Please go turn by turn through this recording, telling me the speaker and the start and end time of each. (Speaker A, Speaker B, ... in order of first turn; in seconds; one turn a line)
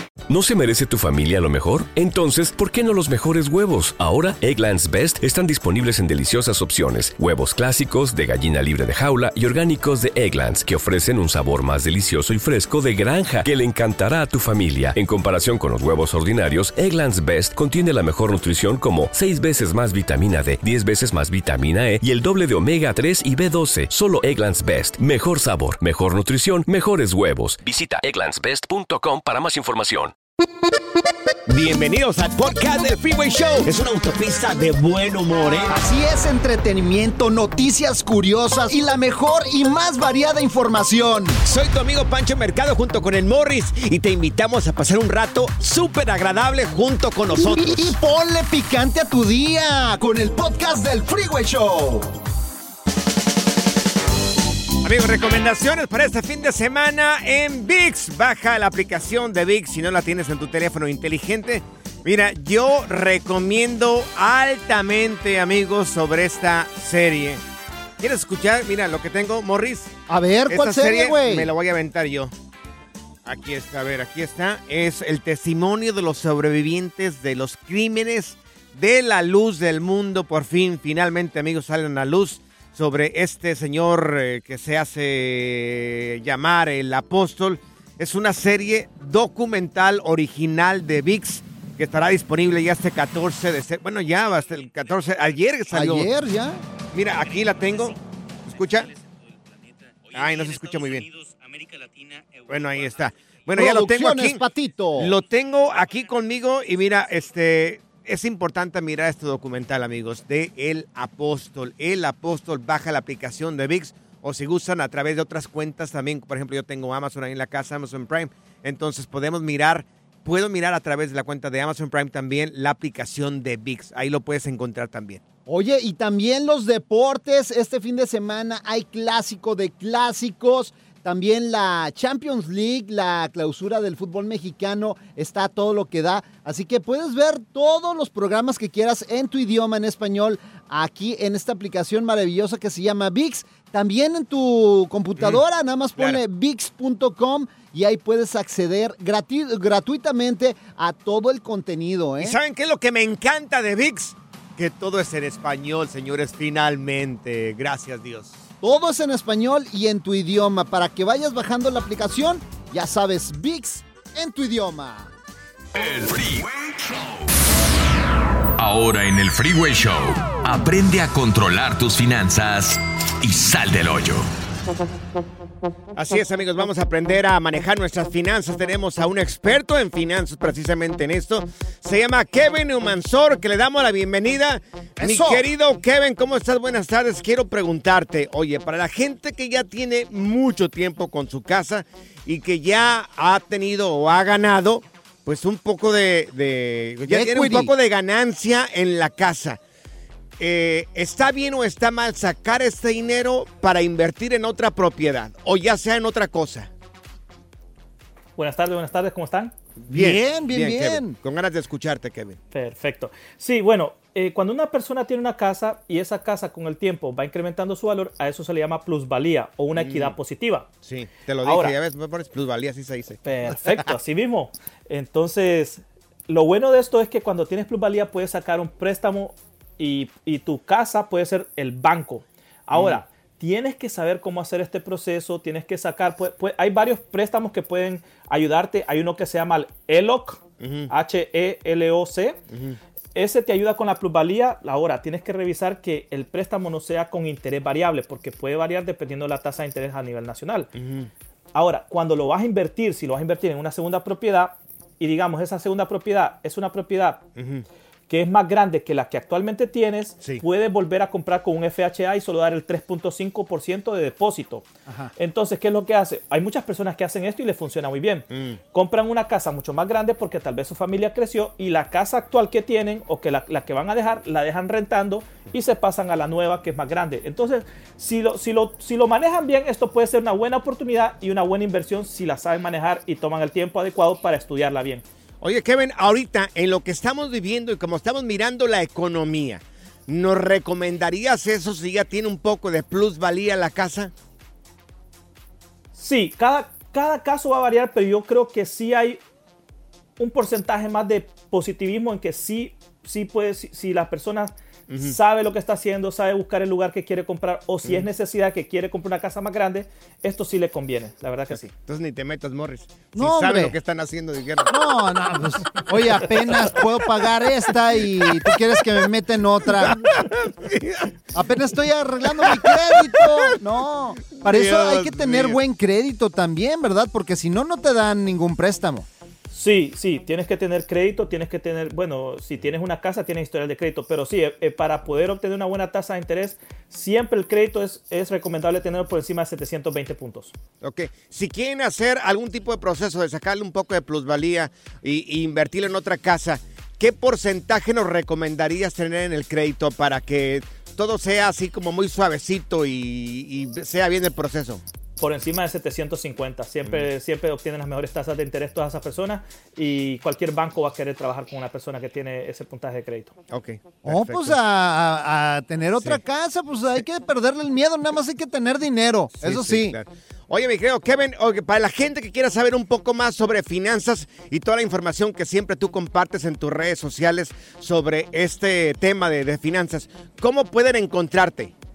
Speaker A: 0.3-30.1
Speaker B: 31.5-35.7
Speaker C: 35.7-41.4
Speaker B: 41.4-47.9
Speaker C: 47.3-52.1
Speaker B: 54.8-67.4
Speaker B: 68.0-69.9
Speaker C: 70.1-71.5
Speaker B: 70.5-72.3
Speaker B: 73.2-96.1
Speaker C: 95.7-96.6
Speaker B: 96.9-98.9
Speaker B: 100.1-101.1
Speaker B: 102.5-104.4
Speaker C: 103.5-105.2
Speaker B: 105.0-125.2
Speaker C: 125.5-152.4
Speaker B: 152.2-158.4
Speaker C: 158.6-165.1
Speaker D: 165.7-167.2
Speaker D: 168.6-174.3
Speaker B: 175.9-199.6
Speaker C: 185.0-185.5
Speaker C: 197.1-197.7
Speaker B: 200.4-206.7
Speaker E: 208.3-209.5
Speaker B: 209.8-212.4
Speaker C: 209.9-211.2
Speaker E: 212.5-220.7
Speaker B: 219.7-220.2
Speaker B: 220.8-223.2
Speaker E: 221.4-221.8
Speaker E: 223.2-242.4
Speaker B: 232.7-233.0
Speaker B: 240.6-240.9
Speaker B: 242.5-242.8
Speaker E: 243.1-250.7
Speaker B: 250.8-251.1
Speaker E: 251.5-257.2
Speaker B: 257.4-257.6
Speaker E: 258.1-285.0
Speaker C: 264.9-265.1
Speaker B: 268.3-268.6
Speaker B: 285.4-294.1
Speaker E: 295.9-299.2
Speaker E: 300.2-311.7
Speaker B: 304.9-305.1
Speaker B: 311.7-314.8
Speaker C: 313.1-313.7
Speaker C: 314.7-320.1
Speaker B: 315.8-316.8
Speaker B: 319.7-321.1
Speaker C: 321.3-329.1
Speaker B: 322.4-323.5
Speaker B: 324.4-325.6
Speaker E: 329.5-340.5
Speaker B: 340.8-354.8
Speaker E: 355.2-363.3
Speaker B: 356.8-357.1
Speaker B: 363.5-364.6
Speaker C: 364.0-370.0
Speaker B: 369.4-381.7